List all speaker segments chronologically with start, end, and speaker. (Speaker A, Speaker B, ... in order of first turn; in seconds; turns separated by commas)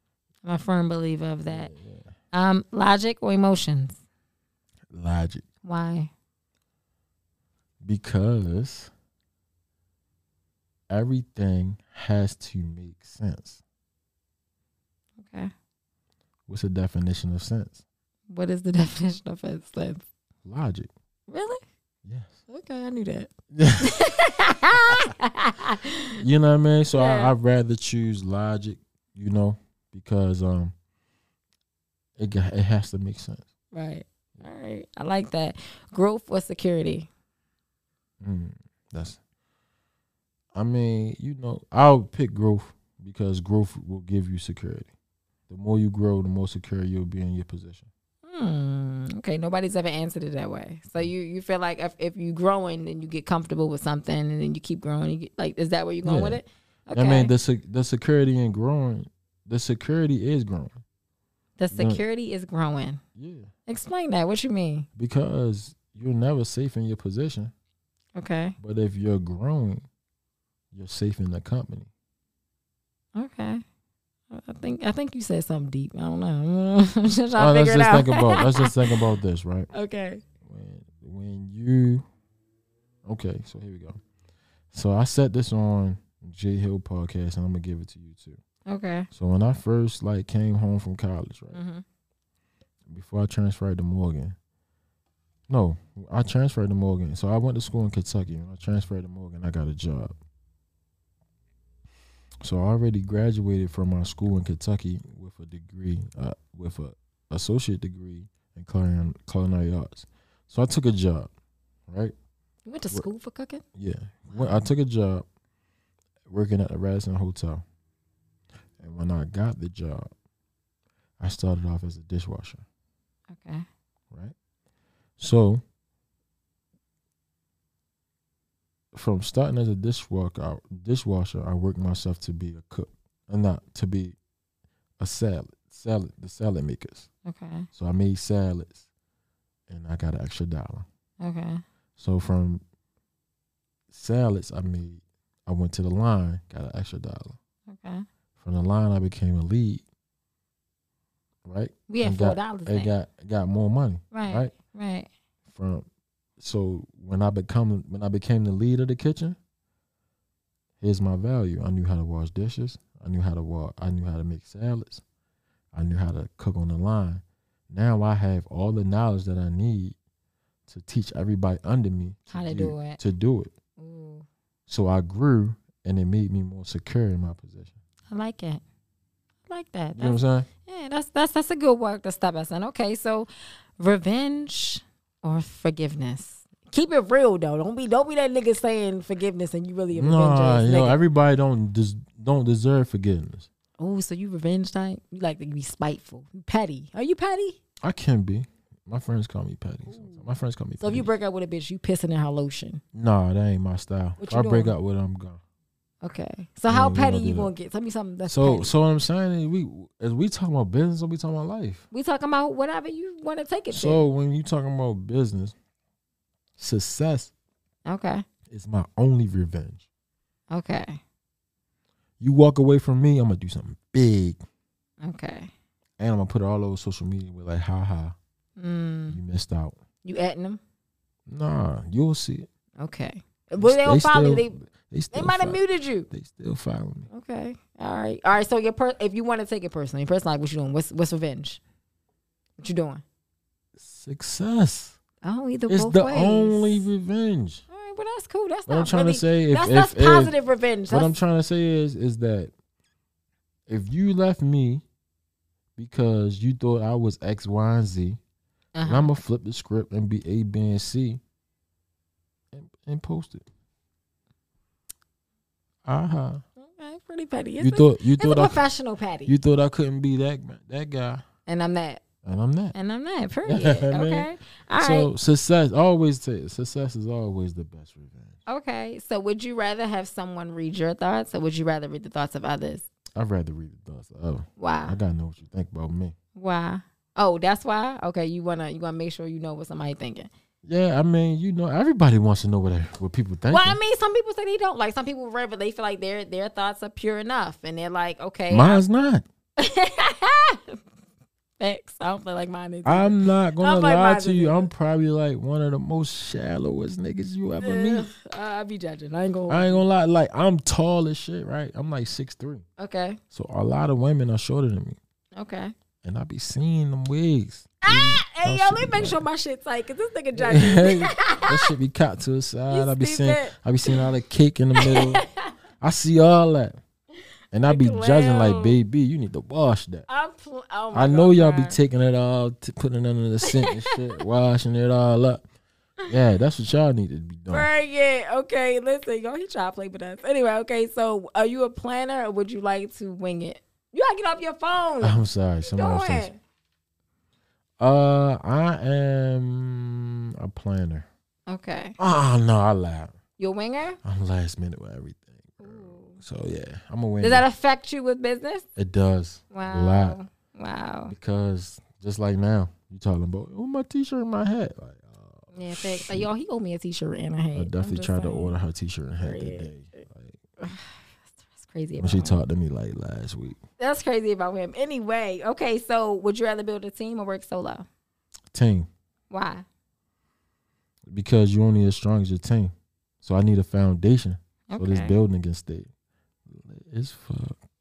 Speaker A: 0.4-1.7, Speaker B: 1.4-2.1, Speaker A: 2.3-4.0, Speaker B: 4.9-5.5, Speaker A: 5.6-6.1, Speaker B: 7.8-8.9, Speaker B: 10.9-13.6, Speaker A: 15.2-15.5, Speaker B: 16.5-17.8, Speaker A: 18.3-20.1, Speaker B: 20.4-20.9, Speaker A: 21.3-21.6, Speaker B: 22.0-22.4, Speaker A: 22.5-26.2, Speaker B: 23.5-24.1, Speaker B: 26.2-30.7, Speaker A: 26.9-27.3, Speaker B: 32.2-33.5, Speaker A: 33.7-37.1, Speaker B: 38.2-39.2, Speaker B: 40.5-44.9, Speaker B: 45.5-47.9, Speaker A: 48.2-57.3, Speaker B: 56.0-56.4, Speaker B: 56.9-60.8, Speaker A: 61.6-63.0, Speaker B: 61.7-62.0, Speaker B: 63.1-63.5, Speaker A: 63.7-64.9, Speaker B: 65.0-67.5, Speaker A: 68.2-68.5, Speaker B: 68.6-69.8, Speaker B: 70.7-71.9, Speaker A: 73.2-73.6, Speaker A: 74.3-78.7, Speaker B: 77.3-79.7, Speaker A: 79.7-80.2, Speaker B: 80.4-82.0, Speaker B: 83.0-84.0, Speaker B: 84.7-88.4, Speaker A: 88.7-89.1, Speaker B: 89.1-91.6, Speaker A: 91.5-91.8, Speaker B: 92.9-94.3, Speaker B: 95.5-100.2, Speaker B: 102.4-111.3, Speaker B: 111.9-112.1, Speaker A: 112.7-113.6, Speaker B: 113.8-115.2, Speaker A: 114.3-114.7, Speaker B: 116.3-117.6, Speaker B: 118.8-120.1, Speaker B: 121.2-122.6, Speaker A: 123.3-123.7, Speaker B: 125.2-125.6, Speaker B: 128.9-134.2, Speaker B: 135.0-137.1, Speaker A: 137.2-137.7, Speaker B: 137.7-138.8, Speaker B: 139.7-140.8, Speaker A: 141.2-141.6, Speaker B: 142.0-142.6, Speaker B: 143.9-147.4, Speaker A: 147.7-148.1, Speaker B: 148.4-149.8, Speaker B: 151.4-154.5, Speaker A: 151.9-152.9, Speaker A: 154.1-155.1, Speaker B: 155.4-155.8, Speaker B: 156.4-159.4, Speaker B: 160.8-165.0, Speaker B: 165.7-170.0, Speaker B: 170.7-173.5, Speaker A: 172.3-173.0, Speaker A: 173.8-174.3, Speaker B: 174.7-177.8, Speaker A: 178.1-178.6, Speaker A: 179.5-191.0, Speaker B: 180.0-180.5, Speaker B: 189.9-193.5, Speaker A: 193.8-197.6, Speaker B: 197.8-201.1, Speaker A: 199.9-200.2, Speaker A: 200.8-202.8, Speaker B: 202.9-205.4, Speaker A: 204.2-204.8, Speaker A: 206.0-208.7, Speaker B: 206.7-207.5, Speaker B: 208.3-211.8, Speaker A: 211.9-214.0, Speaker B: 213.7-215.6, Speaker B: 216.6-217.3, Speaker A: 217.8-218.2, Speaker B: 218.5-219.9, Speaker A: 220.5-221.0, Speaker B: 222.2-224.4, Speaker A: 225.0-225.5, Speaker B: 226.0-228.2, Speaker A: 228.6-229.2, Speaker B: 229.1-229.8, Speaker A: 230.0-230.6, Speaker B: 231.3-232.5, Speaker A: 232.8-234.6, Speaker B: 233.6-237.1, Speaker A: 235.1-236.1, Speaker A: 237.1-241.6, Speaker A: 242.6-243.0, Speaker B: 243.8-245.0, Speaker A: 245.2-246.9, Speaker B: 245.7-247.6, Speaker A: 247.7-251.2, Speaker B: 248.7-250.3, Speaker B: 250.9-252.5, Speaker B: 253.7-254.8, Speaker B: 255.8-258.2, Speaker A: 258.8-259.1, Speaker B: 258.8-261.2, Speaker B: 262.5-263.4, Speaker B: 265.8-266.4, Speaker A: 266.6-269.3, Speaker B: 267.6-268.6, Speaker B: 269.2-271.2, Speaker A: 271.4-272.0, Speaker B: 272.2-272.7, Speaker A: 272.7-275.1, Speaker B: 273.4-278.4, Speaker A: 278.5-282.9, Speaker B: 283.1-286.1, Speaker A: 284.6-285.0, Speaker A: 286.4-290.3, Speaker B: 290.6-293.8, Speaker A: 293.5-298.8, Speaker B: 298.5-299.2, Speaker A: 299.6-300.8, Speaker A: 301.6-304.7, Speaker B: 302.8-308.1, Speaker A: 307.6-309.8, Speaker B: 309.5-312.6, Speaker A: 312.8-313.2, Speaker B: 313.3-315.0, Speaker A: 315.4-315.7, Speaker B: 316.0-319.2, Speaker A: 317.8-321.7, Speaker B: 320.3-325.2, Speaker A: 322.7-324.0, Speaker A: 324.8-325.5, Speaker B: 325.8-326.8, Speaker B: 327.5-330.1, Speaker A: 327.6-328.8, Speaker A: 330.1-331.8, Speaker B: 330.9-335.4, Speaker A: 333.4-334.2, Speaker B: 336.0-337.7, Speaker A: 337.5-346.4, Speaker B: 345.0-346.3, Speaker B: 347.8-351.1, Speaker A: 351.5-352.0, Speaker B: 352.0-353.1, Speaker A: 353.4-354.0, Speaker B: 354.0-357.4, Speaker A: 355.6-356.2, Speaker A: 357.2-358.7, Speaker B: 358.8-360.2, Speaker A: 359.5-361.1, Speaker B: 361.1-366.3, Speaker A: 365.5-368.5, Speaker B: 367.5-370.4, Speaker A: 369.2-370.0, Speaker A: 370.6-372.4, Speaker B: 372.0-373.6, Speaker A: 373.8-377.9, Speaker B: 378.5-378.9, Speaker A: 379.3-379.6, Speaker B: 381.1-385.9, Speaker A: 384.7-385.2, Speaker B: 386.5-387.6